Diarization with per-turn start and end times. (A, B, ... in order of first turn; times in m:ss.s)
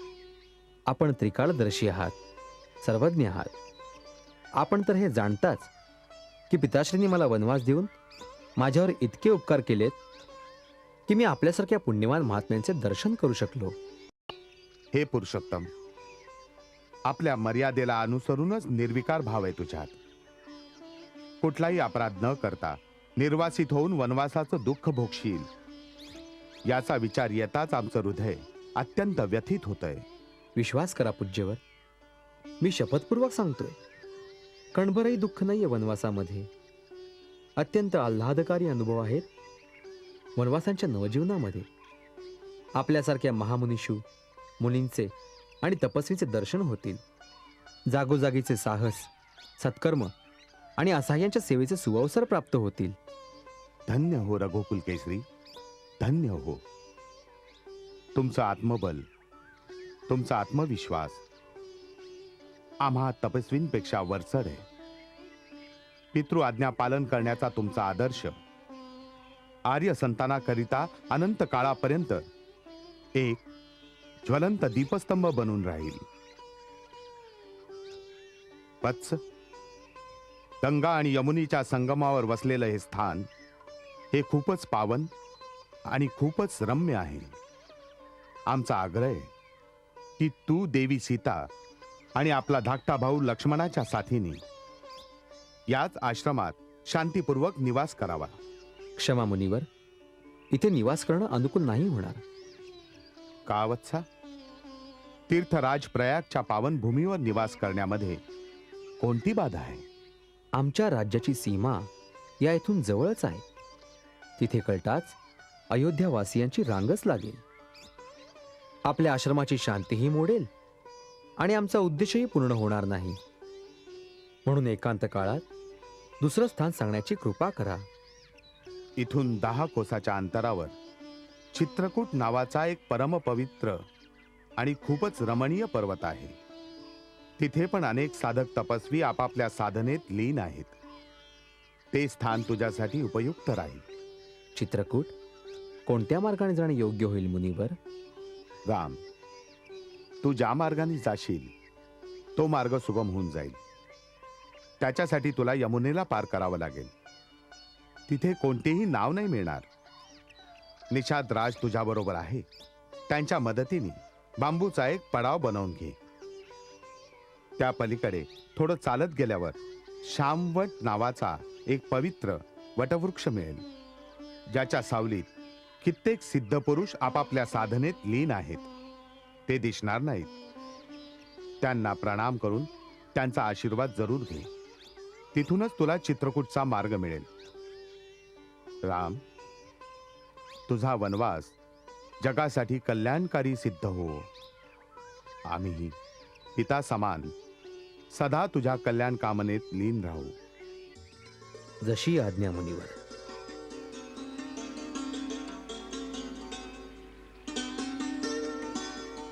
0:00.9-0:02.2 A
0:02.8-0:03.5 A
0:04.6-0:05.7 A
0:06.5-0:07.9 A
0:08.6-0:10.0 A
0:11.1-0:13.8 A
0:14.9-0:15.7 B
0:17.1-0:20.0 B
0:21.4-0:25.5 B
0:26.7-0:30.1 B
0:30.6-0:31.6 A
0:32.6-0:33.8 A
0:34.7-0:36.5 A
0:37.6-0:39.3 A
0:40.4-0:41.7 A
0:42.8-0:44.0 A
0:44.6-0:47.0 A
0:47.9-0:50.1 A
0:50.8-0:53.0 A
0:53.9-0:55.3 B
0:56.0-0:56.6 B
0:58.2-0:59.1 B
1:00.1-1:01.2 B
1:02.8-1:04.7 B
1:06.1-1:08.4 B
1:09.7-1:12.3 B
1:13.2-1:13.4 B
1:14.2-1:16.1 B
1:18.8-1:19.2 B
1:20.6-1:23.3 B
1:24.1-1:25.1 B
1:25.9-1:27.4 B
1:28.5-1:29.3 B
1:30.2-1:31.5 B
1:32.2-1:34.4 B
1:35.7-1:38.4 B
1:39.0-1:39.7 A
1:40.5-1:42.2 A
1:43.5-1:44.0 B
1:45.3-1:48.2 B
1:49.0-1:49.8 B
1:50.6-1:51.9 A
1:52.4-1:53.4 A
1:54.4-1:55.2 A
1:55.7-1:57.4 A
1:58.8-2:00.5 A
2:01.4-2:03.2 A
2:04.4-2:05.4 A
2:06.2-2:07.9 A
2:09.0-2:10.8 B
2:11.5-2:13.9 B
2:14.6-2:16.4 B
2:17.4-2:20.8 B
2:21.9-2:23.8 B
2:24.6-2:25.1 A
2:25.9-2:27.8 A
2:28.7-2:29.0 B
2:30.2-2:31.5 B
2:32.4-2:33.6 B
2:34.8-2:36.9 B
2:38.1-2:39.7 B
2:40.9-2:42.5 B
2:43.1-2:46.0 B
2:47.6-2:53.7 B
2:54.5-2:55.3 B
2:55.8-2:58.7 B
2:59.5-3:00.3 B
3:01.6-3:04.5 B
3:05.3-3:07.3 B
3:08.8-3:09.2 B
3:10.7-3:11.6 B
3:12.2-3:14.3 B
3:15.5-3:16.0 B
3:16.6-3:17.4 B
3:18.1-3:20.4 B
3:21.8-3:23.0 A